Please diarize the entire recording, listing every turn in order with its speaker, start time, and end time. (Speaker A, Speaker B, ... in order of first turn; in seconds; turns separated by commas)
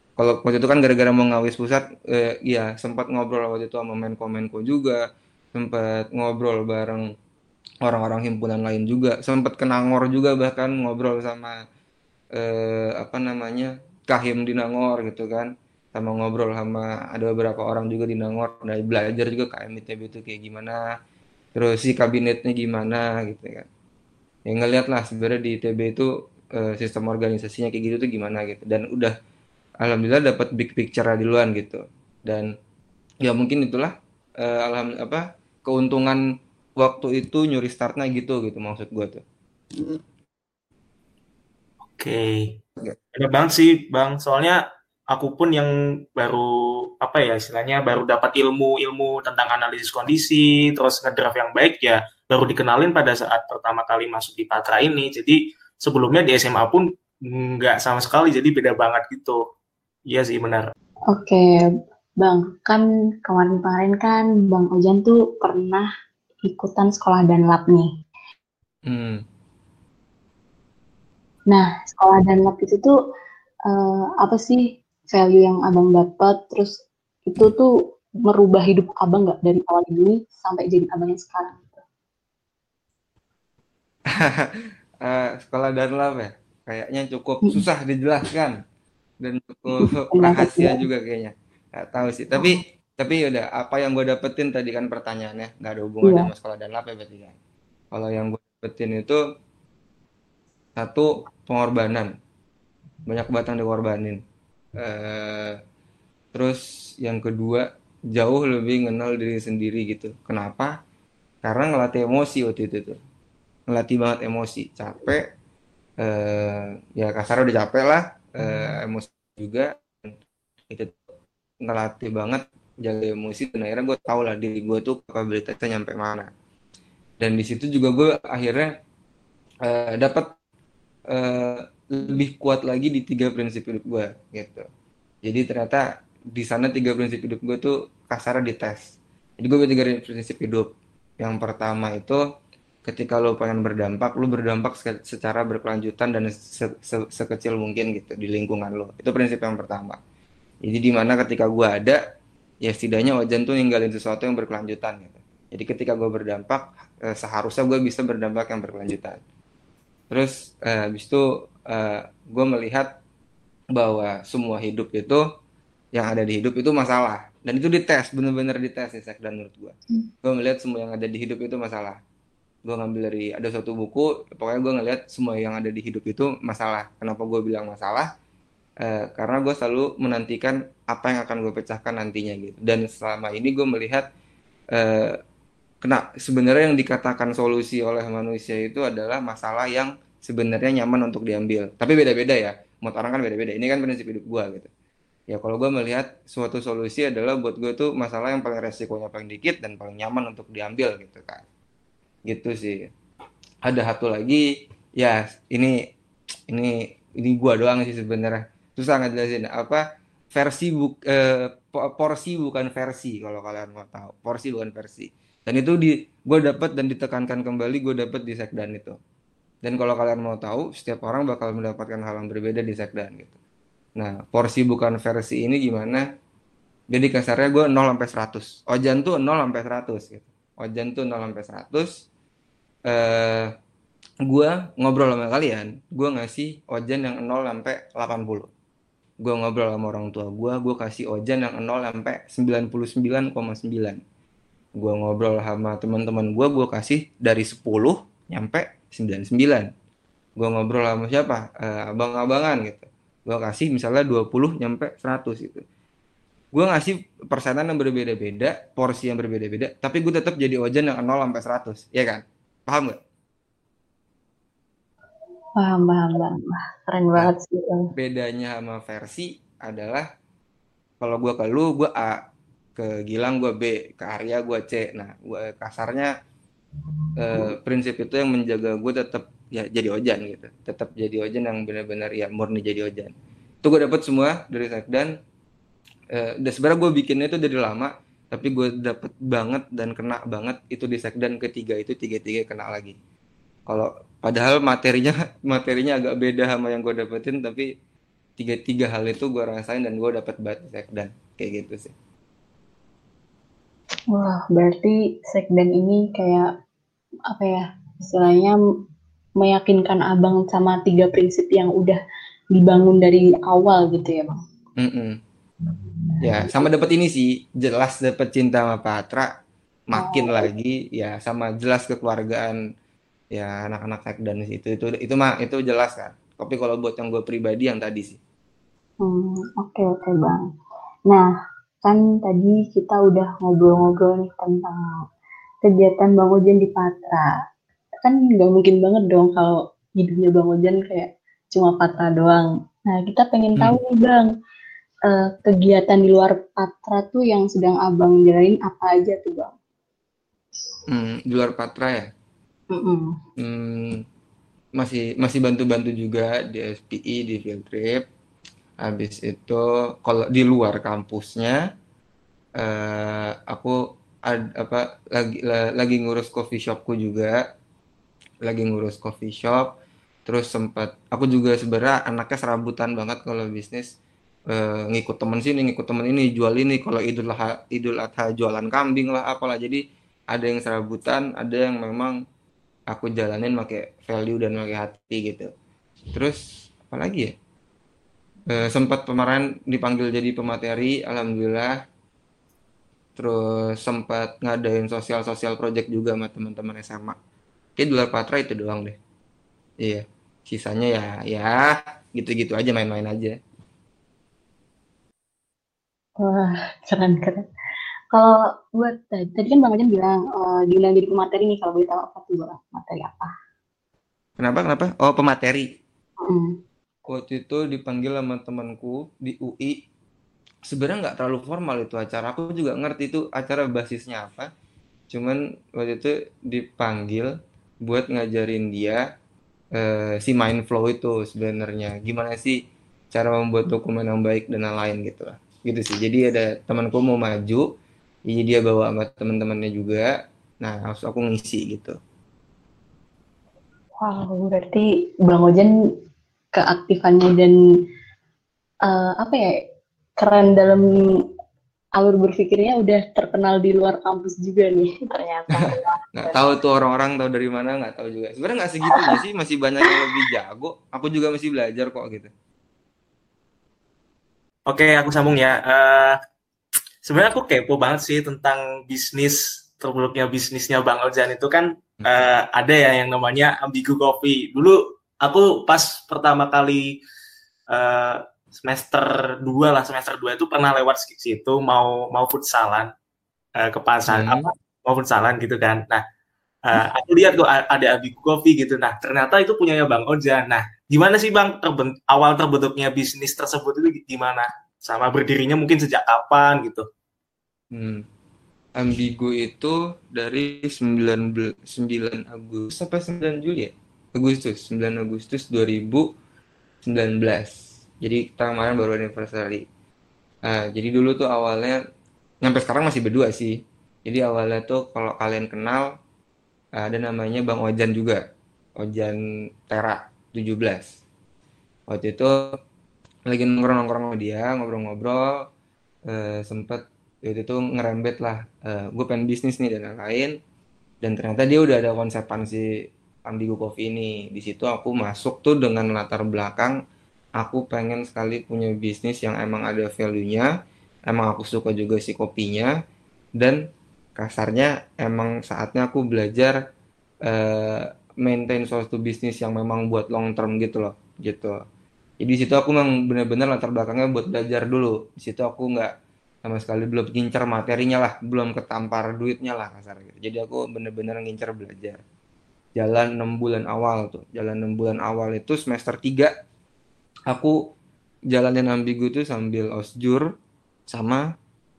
Speaker A: 0.2-5.0, Speaker A: 5.5-7.0, Speaker A: 7.8-11.6, Speaker A: 12.4-20.8, Speaker A: 21.6-23.7, Speaker A: 24.5-29.1, Speaker A: 29.8-32.5, Speaker A: 33.2-36.2, Speaker A: 36.8-39.2, Speaker B: 41.9-42.6, Speaker B: 43.1-59.4, Speaker B: 60.1-60.7, Speaker C: 61.1-61.6, Speaker C: 62.2-65.9, Speaker C: 66.5-67.9, Speaker A: 68.9-69.2, Speaker C: 71.5-72.9, Speaker C: 73.7-77.7, Speaker C: 78.2-81.8, Speaker A: 84.1-88.6, Speaker A: 89.2-97.4, Speaker C: 89.7-90.8, Speaker C: 96.0-96.3, Speaker A: 97.9-99.2, Speaker A: 100.8-102.1, Speaker A: 103.1-104.2, Speaker A: 104.8-105.6, Speaker A: 106.3-110.7, Speaker A: 111.4-113.0, Speaker A: 113.7-115.3, Speaker A: 116.0-120.2, Speaker A: 120.7-121.0, Speaker A: 121.6-126.3, Speaker A: 127.2-128.7, Speaker A: 129.7-130.3, Speaker A: 131.1-134.7, Speaker A: 135.3-140.7, Speaker A: 141.2-142.2, Speaker A: 142.8-150.0, Speaker A: 150.7-152.0, Speaker A: 152.6-159.2, Speaker A: 160.1-162.9, Speaker A: 163.8-165.2, Speaker A: 165.9-172.0, Speaker A: 172.7-178.1, Speaker A: 178.8-184.1, Speaker A: 184.8-185.2, Speaker A: 185.8-194.7, Speaker A: 195.3-201.4, Speaker A: 202.3-202.9, Speaker A: 203.7-204.4, Speaker A: 205.0-205.8, Speaker A: 206.5-219.0, Speaker A: 219.6-223.3, Speaker A: 224.0-226.1, Speaker A: 226.9-232.1, Speaker A: 232.9-233.5, Speaker A: 234.3-238.5, Speaker A: 239.2-244.0, Speaker A: 244.8-249.7, Speaker A: 250.4-255.7, Speaker A: 256.6-263.0, Speaker C: 265.6-267.9, Speaker A: 267.9-270.1, Speaker A: 271.0-272.2, Speaker A: 272.8-276.1, Speaker A: 277.2-285.1, Speaker A: 286.1-293.0, Speaker A: 293.7-297.7, Speaker A: 298.4-301.9, Speaker C: 304.1-306.5, Speaker C: 307.3-308.6, Speaker C: 309.4-312.0, Speaker C: 312.5-314.4, Speaker A: 314.8-315.2, Speaker A: 316.2-319.3, Speaker A: 319.9-322.6, Speaker C: 320.0-320.5, Speaker A: 323.3-328.2, Speaker C: 329.0-330.4, Speaker C: 331.8-334.8, Speaker C: 335.6-337.3, Speaker C: 338.0-344.3, Speaker C: 345.1-349.5, Speaker A: 350.9-352.1, Speaker C: 352.7-353.1, Speaker A: 353.4-354.0, Speaker A: 354.8-358.1, Speaker A: 358.8-361.6, Speaker A: 362.6-367.4, Speaker A: 368.5-369.8, Speaker A: 370.3-373.9, Speaker A: 374.5-382.2, Speaker A: 382.9-385.5, Speaker A: 386.1-387.3, Speaker A: 388.5-391.8, Speaker A: 393.2-397.2, Speaker A: 397.8-399.0, Speaker A: 399.8-403.4, Speaker C: 406.2-407.4, Speaker C: 408.1-413.3, Speaker A: 414.4-415.7, Speaker C: 416.2-416.5, Speaker A: 417.1-419.8, Speaker A: 420.7-424.5, Speaker A: 425.1-427.3, Speaker A: 427.8-429.0, Speaker A: 429.8-432.6, Speaker A: 433.1-437.7, Speaker A: 438.3-440.1, Speaker A: 440.6-441.9, Speaker C: 444.0-445.7, Speaker C: 446.6-447.6, Speaker C: 448.9-449.6, Speaker C: 450.2-450.9, Speaker C: 452.0-456.5, Speaker A: 456.2-462.3, Speaker B: 464.7-466.2, Speaker B: 467.1-477.0, Speaker B: 477.7-482.9, Speaker B: 483.6-486.0, Speaker A: 484.1-484.5, Speaker B: 486.6-496.9, Speaker A: 497.7-498.0, Speaker A: 498.8-506.1, Speaker A: 506.9-509.6, Speaker A: 510.5-511.8, Speaker A: 512.4-515.9, Speaker A: 516.8-518.2, Speaker A: 518.8-520.9, Speaker A: 521.9-522.5, Speaker A: 523.3-525.5, Speaker A: 526.1-530.3, Speaker A: 531.0-532.6, Speaker A: 533.3-536.8, Speaker A: 537.4-540.5, Speaker A: 541.1-542.7, Speaker A: 544.2-546.6, Speaker A: 547.3-551.6, Speaker A: 552.2-555.9, Speaker A: 556.5-562.0, Speaker A: 562.8-566.3, Speaker A: 567.3-567.7, Speaker A: 568.3-570.2, Speaker A: 570.9-571.2